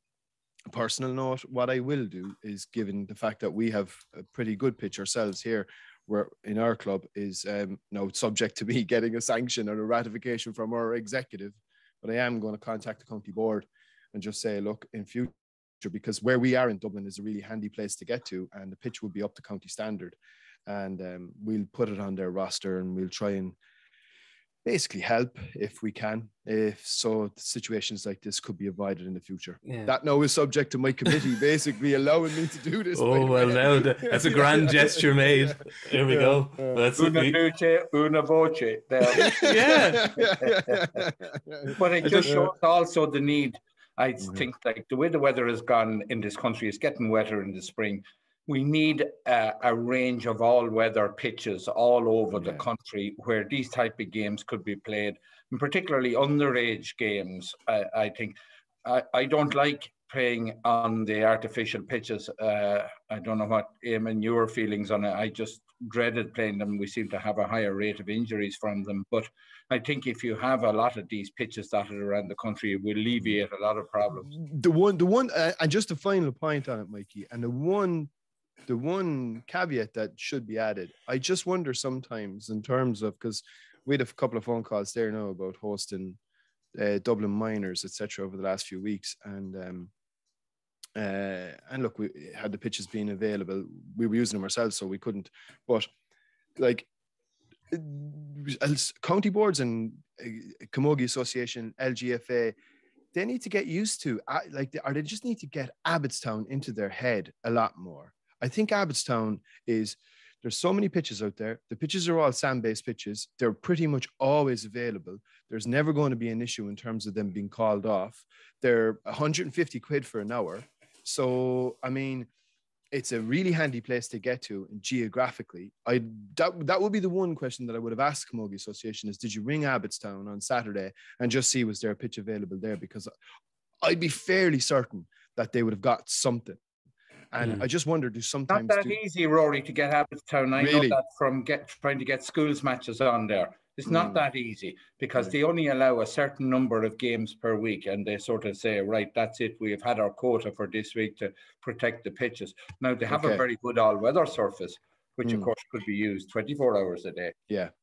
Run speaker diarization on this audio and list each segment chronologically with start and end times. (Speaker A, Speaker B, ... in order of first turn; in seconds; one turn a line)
Speaker A: 0.7-23.6
Speaker A: 24.6-36.8
Speaker B: 29.7-29.9
Speaker B: 33.0-37.4
Speaker C: 37.0-41.0
Speaker A: 39.1-42.5
Speaker B: 39.4-40.2
Speaker C: 41.7-74.3
Speaker B: 42.0-42.4
Speaker A: 74.2-78.1
Speaker A: 78.7-86.2
Speaker A: 86.7-89.9
Speaker A: 91.0-95.9
Speaker A: 96.6-96.9
Speaker A: 97.7-102.5
Speaker A: 103.1-122.3
Speaker A: 122.9-133.1
Speaker A: 133.8-136.6
Speaker A: 137.3-139.0
Speaker C: 138.5-157.3
Speaker A: 140.6-141.0
Speaker A: 143.9-144.2
Speaker A: 153.1-153.4